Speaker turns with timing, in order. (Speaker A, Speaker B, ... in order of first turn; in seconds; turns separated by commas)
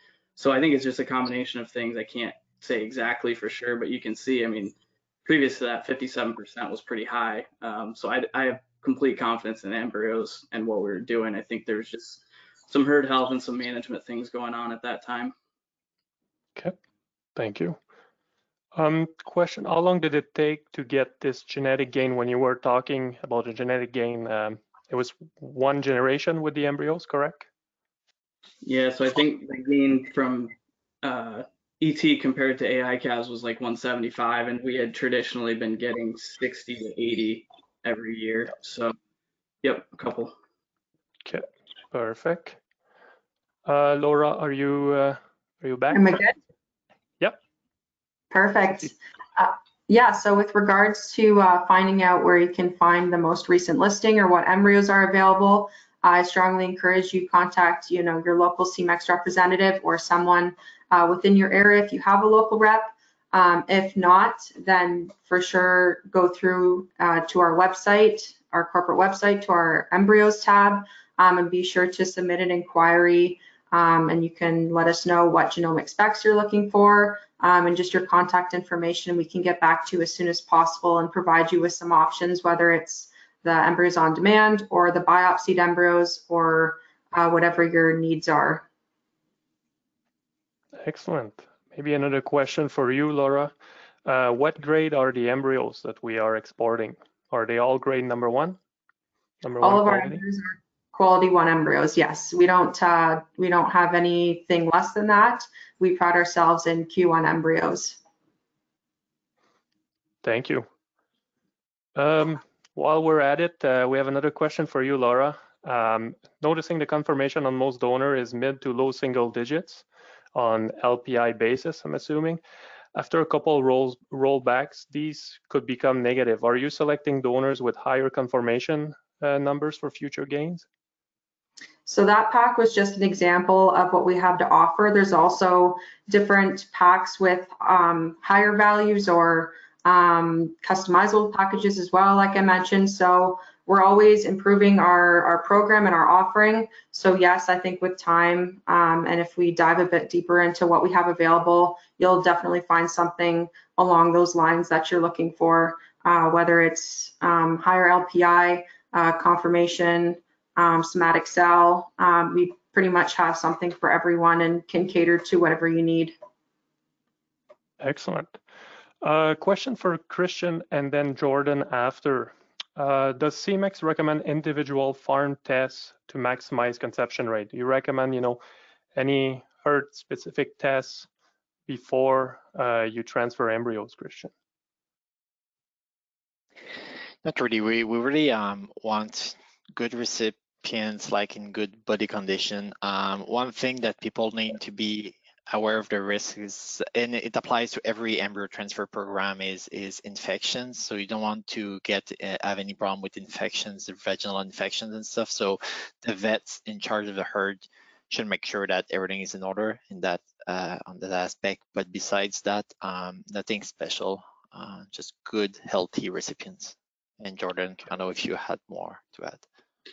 Speaker A: 0.4-15.3, Speaker B: 17.4-17.8, Speaker B: 18.8-27.5, Speaker A: 28.6-39.0, Speaker A: 39.6-40.3, Speaker B: 41.2-42.6, Speaker B: 43.6-46.2, Speaker C: 45.9-46.3, Speaker C: 48.3-88.7, Speaker B: 90.8-93.5, Speaker B: 94.0-98.6, Speaker B: 99.4-100.2, Speaker C: 99.6-108.0, Speaker B: 110.2-110.7, Speaker B: 112.0-119.8, Speaker B: 120.3-122.4, Speaker B: 123.0-130.7, Speaker C: 131.9-166.2, Speaker B: 167.8-168.4, Speaker B: 169.0-178.4, Speaker B: 178.9-181.1, Speaker B: 181.7-184.3, Speaker D: 187.2-219.4